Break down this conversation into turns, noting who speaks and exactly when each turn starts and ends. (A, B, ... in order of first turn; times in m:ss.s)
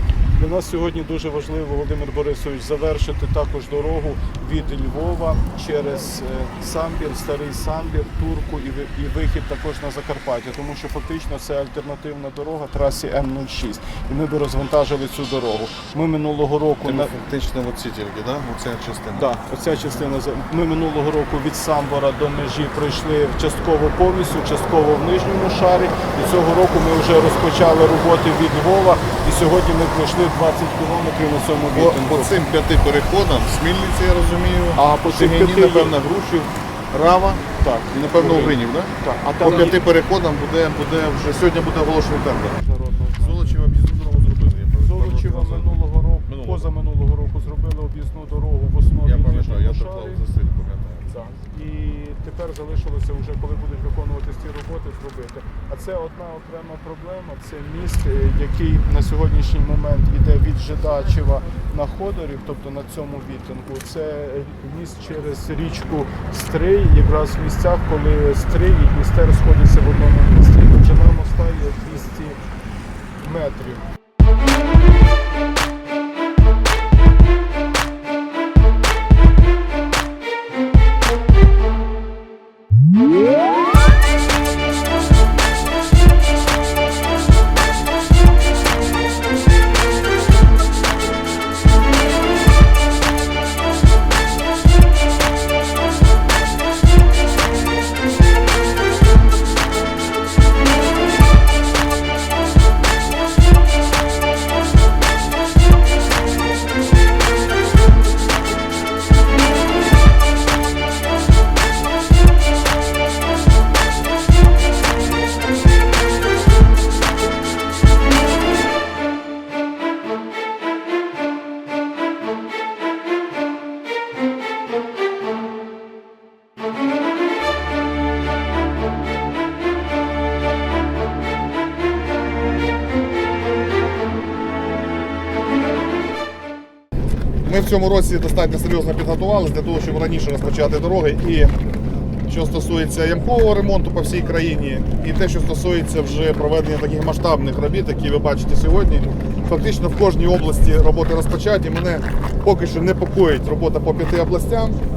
0:00.4-0:17.1 A
0:16.8-0:19.3 B
0:19.1-0:32.4 A
0:31.7-0:42.6 B
0:34.7-0:36.0 A
0:37.6-0:39.8 A
0:42.4-0:43.6 A
0:43.2-0:45.7 B
0:44.8-0:50.2 A
0:46.3-0:46.7 B
0:49.0-0:51.1 B
0:51.0-1:12.4 A
1:13.2-1:13.8 A
2:17.4-2:21.5 B
2:22.3-2:34.8 B